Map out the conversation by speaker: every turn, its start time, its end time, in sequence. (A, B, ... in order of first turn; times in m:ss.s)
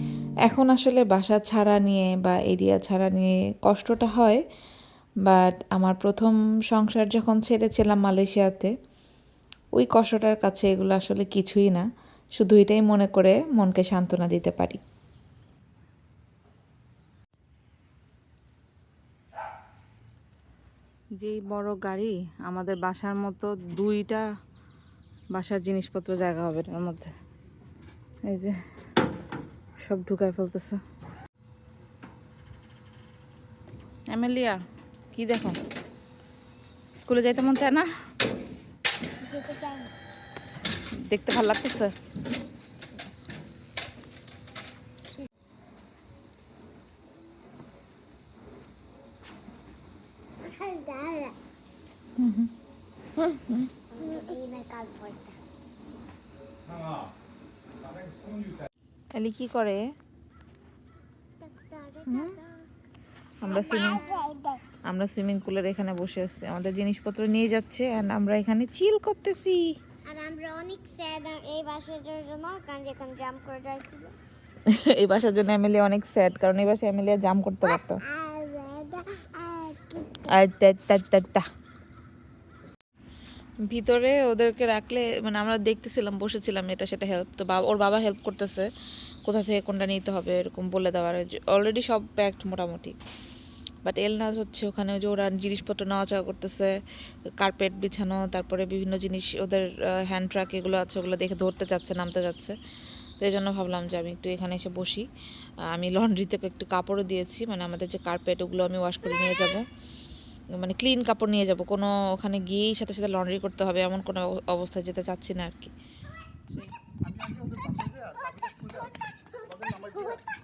0:00.4-0:04.4 A
0:05.2-0:08.7 A
0:09.8-0:14.8 A
0:21.2-0:24.2 A
0:25.3-0:27.1 A
0:28.3-0:28.6 A
0:29.8-0:30.8 A
0:34.1-0:34.6 A
0:35.2-0:35.6 A
0:37.0-0:37.9 A
0:39.2-0:39.9 B
0:41.1-0:41.9 A
0:50.4-0:51.4 B
0:52.2-0:52.5 A
0:53.2-0:53.7 A
0:53.9-0:55.4 B
0:59.1-0:59.8 A
1:01.4-1:02.6 B
1:02.1-1:02.4 A
1:03.4-1:04.0 A
1:03.5-1:04.6 B
1:04.9-1:09.7 A
1:10.1-1:14.2 B
1:14.7-1:18.0 A
1:17.6-1:20.3 B
1:20.3-1:21.5 A
1:23.7-1:28.7 A
1:29.2-1:33.0 A
1:33.8-1:36.8 A
1:37.4-1:42.6 A
1:43.2-1:45.1 A
1:45.7-1:49.7 A
1:50.5-1:55.7 A
1:59.4-2:00.2 B